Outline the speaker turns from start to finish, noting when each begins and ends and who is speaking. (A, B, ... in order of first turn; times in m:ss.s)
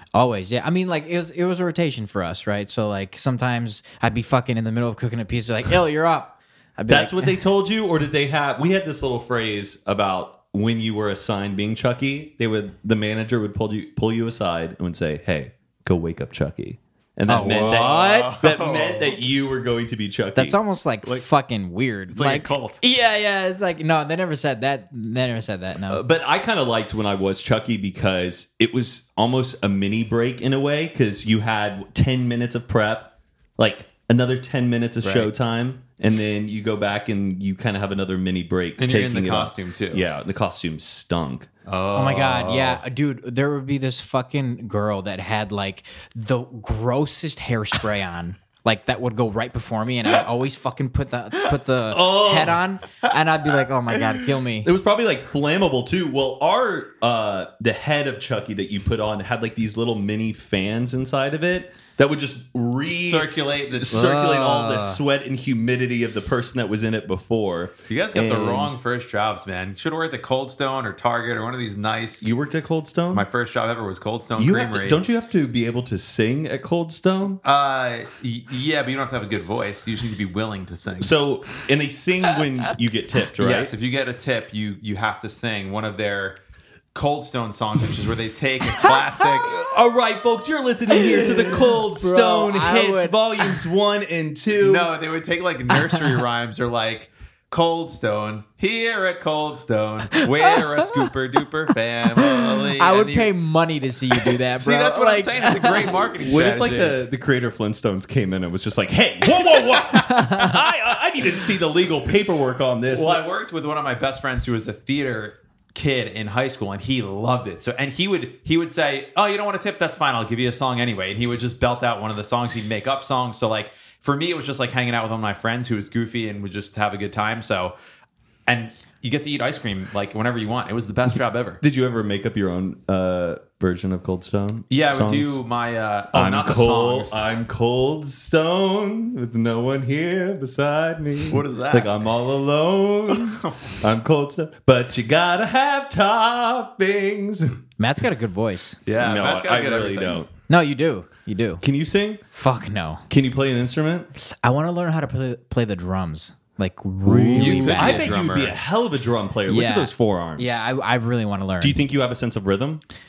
0:00.1-0:07.4 A
0:06.9-0:21.2 B
0:17.3-0:18.3 A
0:17.3-0:19.2 C
0:20.4-0:26.0 A
0:22.1-0:22.8 C
0:25.9-0:41.5 B
0:35.0-0:35.3 C
0:38.8-0:40.0 C
0:41.7-0:42.8 C
0:41.9-0:54.7 A
0:51.9-0:52.6 B
0:54.6-1:08.8 B
1:02.9-1:04.0 C
1:03.9-1:05.0 A
1:07.9-1:12.3 C
1:12.2-1:13.3 B
1:13.1-1:15.0 C
1:14.4-1:17.4 B
1:17.4-1:21.1 C
1:21.0-1:23.7 B
1:23.4-1:26.4 C
1:26.9-1:29.6 C
1:29.4-1:34.9 B
1:31.9-1:33.2 A
1:34.6-1:43.3 C
1:35.7-1:36.2 A
1:40.1-1:41.0 A
1:42.2-1:46.0 A
1:44.2-1:47.0 C
1:46.2-1:53.2 B
1:50.0-1:50.5 A
1:52.9-2:07.7 C
2:08.5-2:11.6 C
2:11.6-2:15.4 B
2:14.7-2:17.2 C
2:16.1-2:27.6 B
2:21.3-2:22.0 C
2:23.1-2:23.8 C
2:27.8-2:28.8 A
2:28.9-2:30.2 C
2:29.0-2:30.3 B
2:30.5-2:31.6 A
2:31.6-2:32.2 B
2:32.3-2:33.0 A
2:33.1-2:34.1 B
2:34.2-2:38.1 A
2:37.0-2:40.6 B
2:37.3-2:38.6 C
2:39.5-2:41.8 A
2:41.6-2:42.8 B